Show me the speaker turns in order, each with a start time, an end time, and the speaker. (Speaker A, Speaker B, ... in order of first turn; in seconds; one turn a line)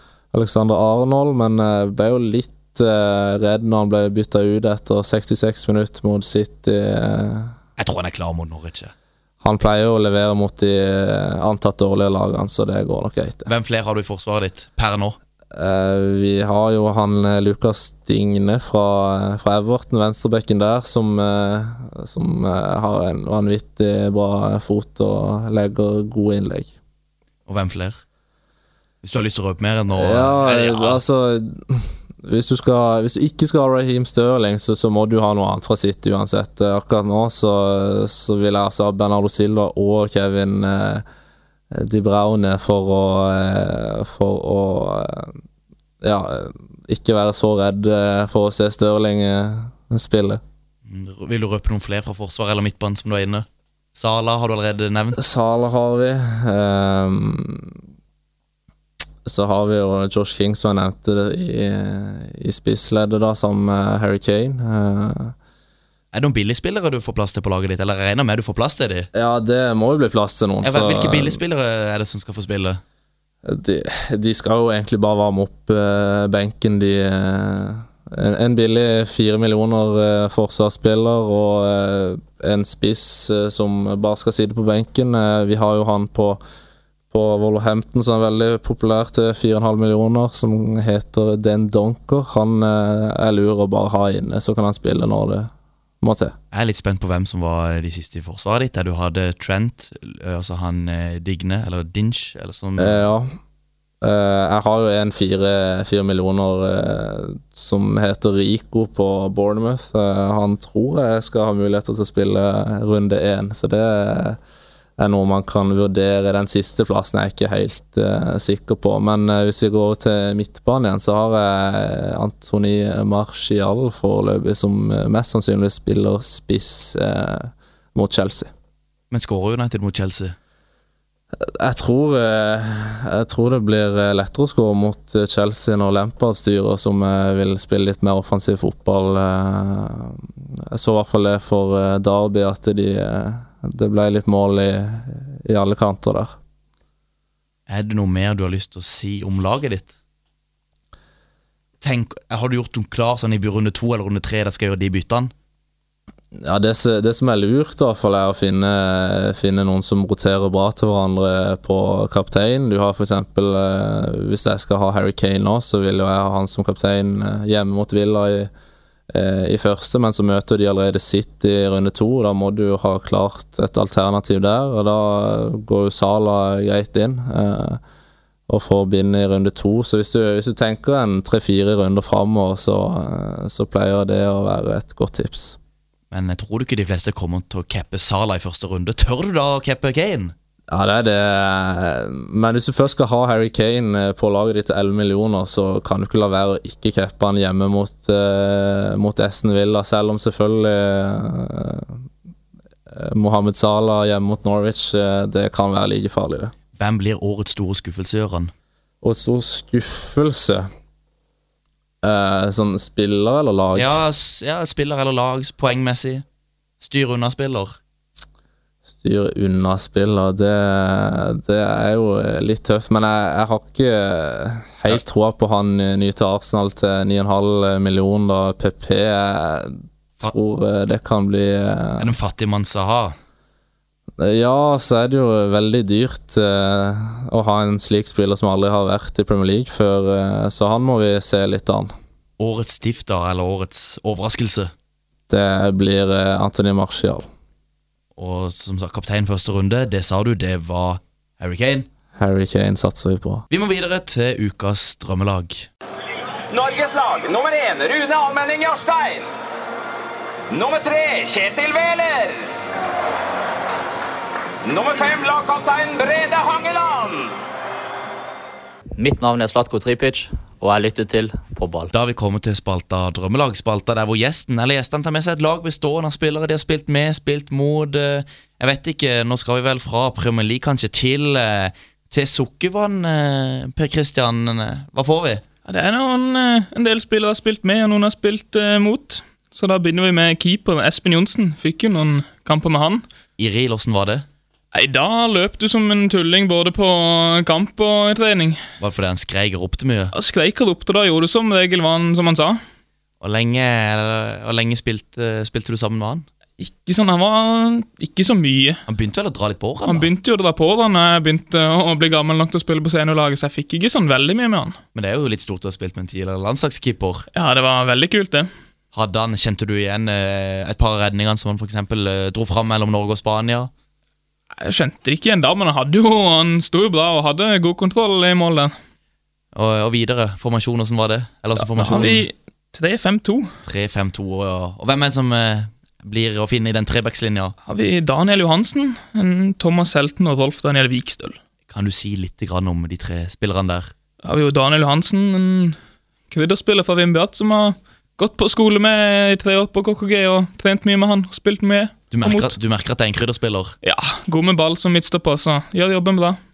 Speaker A: 0.3-7.5
Speaker B: 7.8-8.9
Speaker A: 9.4-13.5
Speaker B: 13.5-15.2
Speaker A: 15.5-26.7
Speaker B: 27.5-28.0
Speaker B: 29.0-31.0
Speaker A: 29.9-41.0
Speaker A: 41.7-45.3
Speaker A: 46.0-50.4
Speaker B: 50.9-55.2
Speaker A: 55.2-57.8
Speaker A: 59.2-65.3
Speaker B: 66.1-69.1
Speaker A: 69.1-71.4
Speaker B: 70.6-72.8
Speaker A: 73.5-86.4
Speaker A: 87.1-95.5
Speaker A: 96.0-96.3
Speaker B: 96.5-103.0
Speaker A: 102.8-103.3
Speaker A: 104.0-114.4
Speaker A: 115.0-128.5
Speaker B: 129.1-130.3
Speaker A: 131.4-146.4
Speaker B: 147.7-149.9
Speaker B: 151.8-155.3
Speaker A: 156.3-168.5
Speaker A: 169.1-177.8
Speaker A: 178.5-185.6
Speaker B: 186.1-190.3
Speaker A: 190.7-202.0
Speaker A: 202.9-206.5
Speaker B: 206.8-208.5
Speaker A: 209.0-210.7
Speaker A: 212.0-214.0
Speaker B: 213.8-216.2
Speaker B: 216.8-217.8
Speaker A: 218.9-232.2
Speaker B: 232.0-233.2
Speaker A: 234.2-241.9
Speaker B: 242.4-244.7
Speaker A: 245.3-247.3
Speaker B: 248.2-251.9
Speaker A: 252.2-253.4
Speaker B: 253.5-255.7
Speaker C: 256.5-259.3
Speaker C: 260.5-262.5
Speaker C: 264.6-267.4
Speaker D: 269.0-271.9
Speaker B: 271.9-285.4
Speaker E: 285.7-293.0
Speaker B: 293.4-294.2
Speaker E: 294.7-298.6
Speaker B: 298.8-300.1
Speaker E: 300.1-302.6
Speaker B: 303.2-306.3
Speaker E: 306.6-308.8
Speaker B: 308.9-310.1
Speaker E: 309.9-314.8
Speaker B: 314.9-317.2
Speaker E: 317.3-318.5
Speaker B: 318.9-323.7
Speaker E: 324.6-328.7
Speaker B: 329.5-332.3
Speaker E: 331.6-333.5
Speaker B: 333.6-337.6
Speaker E: 337.7-341.4
Speaker B: 341.7-343.9
Speaker E: 344.2-345.8
Speaker E: 346.3-352.6
Speaker B: 352.1-353.8
Speaker E: 353.8-356.4